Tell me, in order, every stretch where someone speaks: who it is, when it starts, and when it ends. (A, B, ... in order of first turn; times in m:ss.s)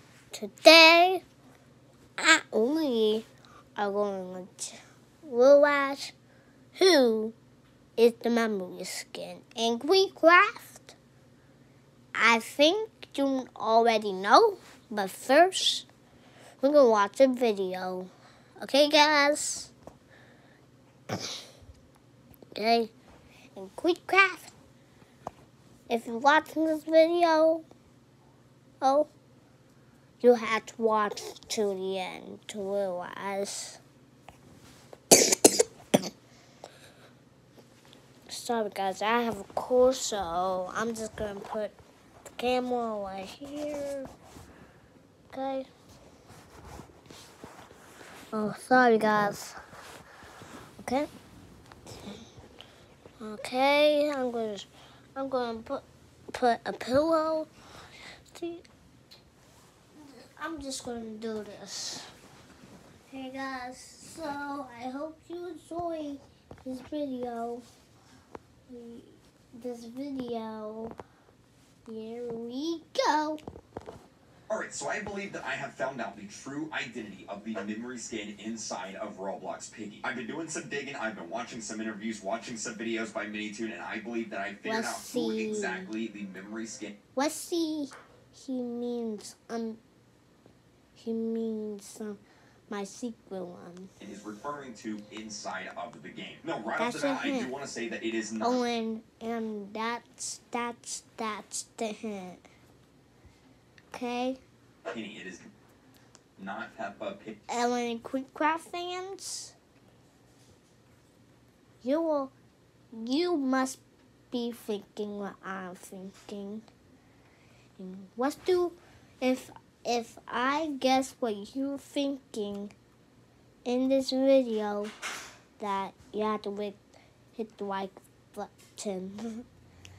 0:00.3-0:01.2 A
0:02.2-0:06.2 A
0:06.8-0:07.4 A
0:08.0-0:11.0 A
0:12.1-0:15.9 A
0:16.6-0:19.7 A
0:22.6-0:22.9 A
0:23.6-0:24.5 A
0:25.9-0:27.7 A
0:28.8-0:29.1 A
0:30.2-0:33.8 A
0:38.3-0:41.8 A
0:42.4-0:44.1 A
0:45.3-0:45.7 A
0:48.3-0:49.6 A
0:50.8-0:51.1 A
0:53.2-0:57.5 A
0:58.3-0:58.6 A
1:00.0-1:02.1 A
1:03.1-1:07.6 A
1:08.7-1:11.0 A
1:11.9-1:13.4 A
1:14.5-1:26.9 B
1:24.6-1:25.9 A
1:27.2-1:29.8 A
1:31.0-1:32.2 A
1:32.7-1:33.9 A
1:34.0-1:38.6 B
1:36.8-1:37.5 A
1:38.4-1:42.4 A
1:43.9-1:44.4 A
1:44.9-1:45.5 B
1:46.4-1:47.4 B
1:47.5-1:49.6 A
1:51.8-1:52.3 A
1:52.9-1:53.8 A
1:54.3-1:56.6 A
1:57.8-2:02.7 A
2:03.7-2:04.9 A
2:05.6-2:06.8 A
2:07.4-2:09.4 A